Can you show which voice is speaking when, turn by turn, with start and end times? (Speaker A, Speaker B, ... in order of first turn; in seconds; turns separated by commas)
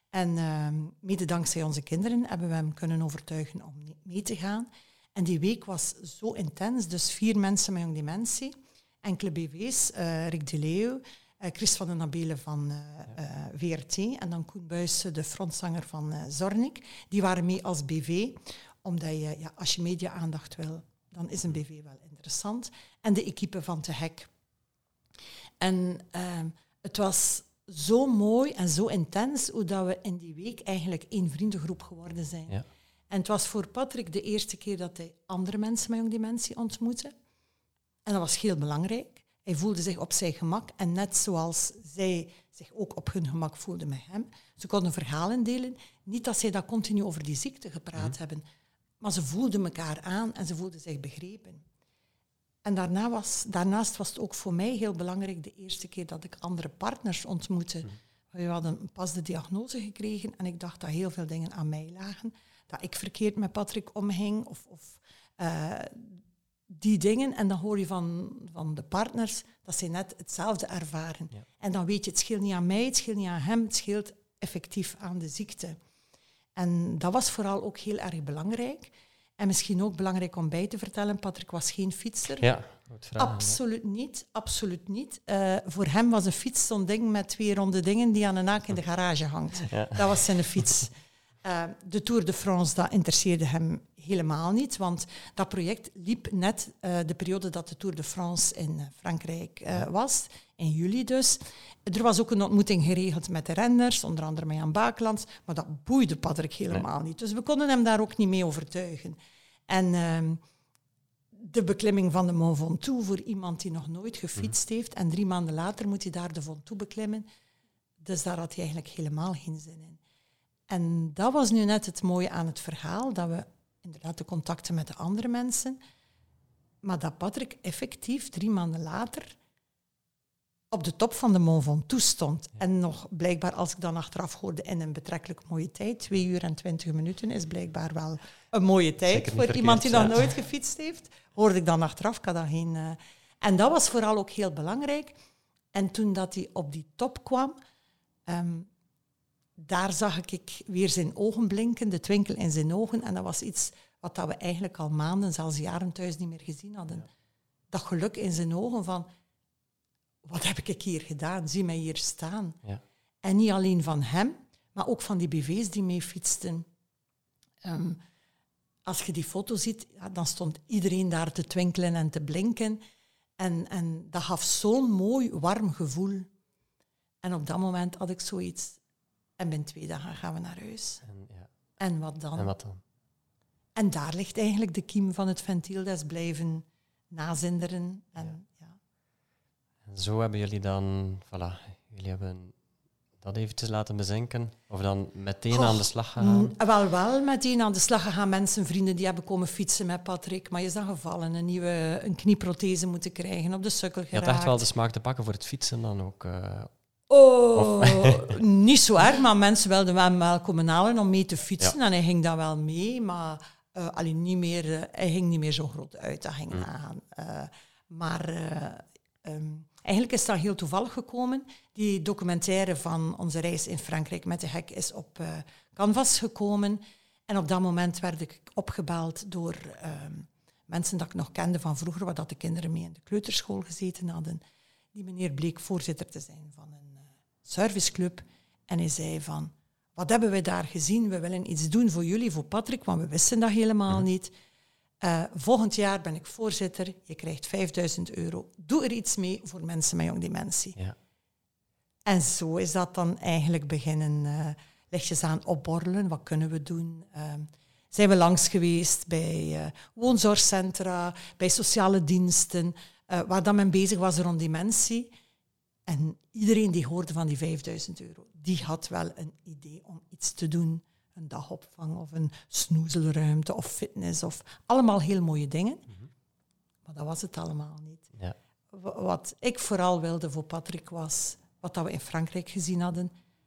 Speaker A: 0.1-24.3, Speaker A: 25.6-32.6, Speaker A: 33.1-37.1, Speaker A: 38.0-48.4, Speaker A: 49.0-51.6, Speaker A: 52.6-66.2, Speaker A: 66.7-75.8, Speaker A: 76.6-82.4, Speaker B: 82.4-83.6, Speaker A: 83.2-90.9, Speaker B: 89.7-90.6, Speaker A: 91.4-109.2, Speaker A: 109.7-110.4, Speaker A: 111.3-117.2, Speaker A: 118.0-120.0, Speaker A: 120.7-125.8, Speaker A: 126.8-129.3, Speaker A: 130.7-145.2, Speaker B: 139.1-140.3, Speaker A: 145.7-147.6, Speaker A: 148.3-148.7, Speaker A: 149.6-157.1, Speaker A: 157.7-159.1, Speaker A: 160.2-162.6, Speaker A: 163.2-166.7, Speaker A: 167.6-168.0, Speaker A: 168.8-172.8, Speaker A: 173.4-176.3, Speaker A: 177.2-178.8, Speaker A: 179.4-181.0, Speaker B: 181.0-181.5, Speaker A: 181.8-182.5, Speaker B: 182.3-182.8, Speaker A: 183.8-188.8, Speaker B: 189.8-192.5, Speaker B: 193.2-196.5, Speaker A: 195.5-204.6, Speaker B: 204.1-206.7, Speaker A: 207.1-234.4, Speaker B: 207.5-208.4, Speaker A: 234.9-244.3, Speaker A: 245.0-250.8, Speaker A: 252.1-265.1, Speaker A: 265.9-275.9, Speaker A: 276.9-278.1, Speaker A: 278.7-283.1